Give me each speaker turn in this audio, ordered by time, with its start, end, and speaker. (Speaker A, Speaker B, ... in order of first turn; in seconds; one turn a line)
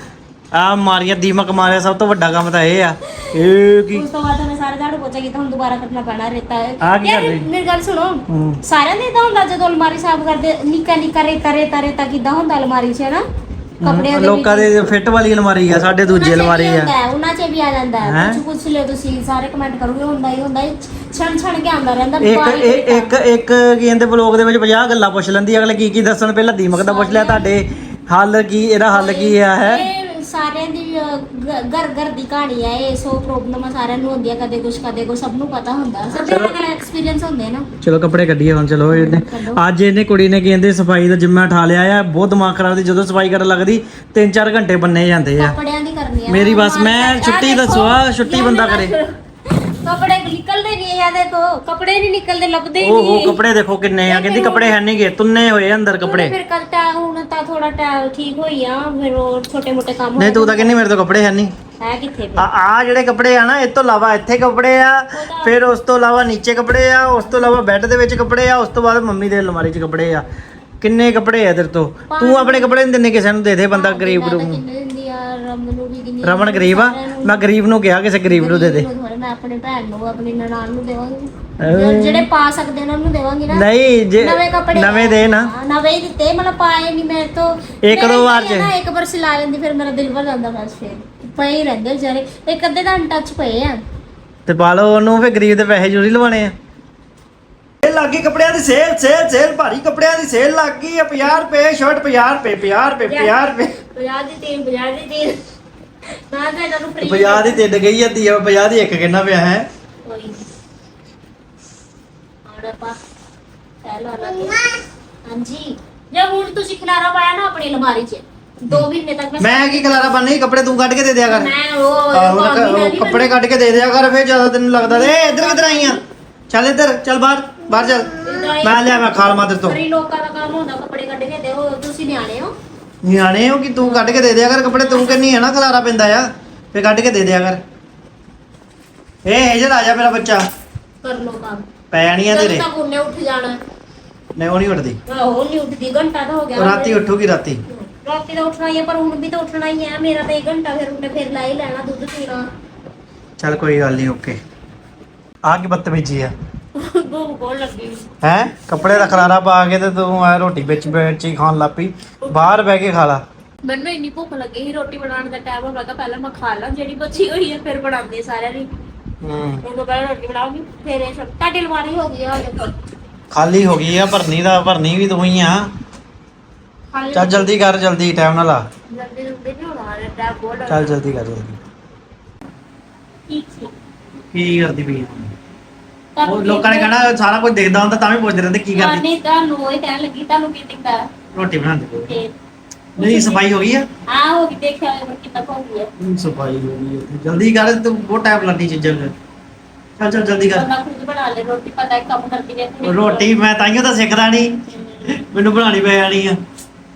Speaker A: 0.5-4.1
Speaker B: 3.9-13.2
Speaker A: 6.8-7.5
Speaker A: 8.3-8.6
Speaker A: 13.8-16.9
Speaker B: 13.8-14.7
Speaker B: 16.1-23.1
Speaker A: 18.0-18.4
Speaker A: 22.2-29.9
Speaker B: 26.7-27.5
Speaker B: 28.9-37.7
Speaker A: 36.2-36.5
Speaker A: 37.8-45.6
Speaker B: 38.9-39.6
Speaker B: 45.4-53.4
Speaker A: 46.3-48.9
Speaker A: 52.8-56.4
Speaker B: 54.1-54.8
Speaker B: 56.0-60.8
Speaker A: 60.2-61.5
Speaker B: 61.8-62.5
Speaker A: 62.4-70.2
Speaker B: 65.1-65.6
Speaker A: 70.8-74.6
Speaker B: 72.1-72.8
Speaker B: 73.7-77.4
Speaker A: 76.2-78.9
Speaker B: 78.3-83.7
Speaker A: 81.6-82.3
Speaker A: 83.5-85.5
Speaker B: 84.2-93.8
Speaker A: 87.8-88.7
Speaker A: 94.5-96.5
Speaker A: 97.8-103.7
Speaker B: 103.1-105.4
Speaker B: 106.3-107.6
Speaker A: 107.0-109.7
Speaker B: 110.0-110.5
Speaker B: 112.5-113.0
Speaker B: 113.8-120.2
Speaker A: 119.4-121.5
Speaker B: 121.3-123.3
Speaker A: 122.1-126.0
Speaker B: 124.8-126.0
Speaker A: 126.5-129.8
Speaker B: 128.2-132.5
Speaker A: 133.0-137.6
Speaker B: 133.8-135.2
Speaker A: 139.2-140.4
Speaker B: 141.0-141.7
Speaker A: 141.9-142.7
Speaker B: 142.2-143.6
Speaker A: 144.4-145.0
Speaker B: 145.1-147.1
Speaker A: 146.6-147.6
Speaker B: 147.7-152.5
Speaker A: 153.4-154.4
Speaker A: 155.4-156.3
Speaker B: 156.8-158.1
Speaker A: 158.2-163.2
Speaker B: 158.8-159.3
Speaker B: 162.2-162.5
Speaker B: 163.7-168.7
Speaker A: 169.2-169.6
Speaker B: 169.6-172.7
Speaker A: 173.3-175.7
Speaker B: 176.9-177.6
Speaker A: 177.1-178.6
Speaker B: 178.9-180.9
Speaker A: 180.7-181.6
Speaker B: 183.3-183.7
Speaker A: 184.3-185.3
Speaker B: 186.2-186.9
Speaker A: 186.2-189.0
Speaker B: 188.8-191.1
Speaker A: 191.3-192.1
Speaker B: 192.1-192.3
Speaker A: 193.0-193.9
Speaker B: 193.0-193.4
Speaker B: 194.1-195.9
Speaker A: 196.0-199.1
Speaker A: 200.0-200.7
Speaker B: 200.5-203.3
Speaker A: 202.8-204.6
Speaker B: 204.7-205.1
Speaker A: 205.1-206.4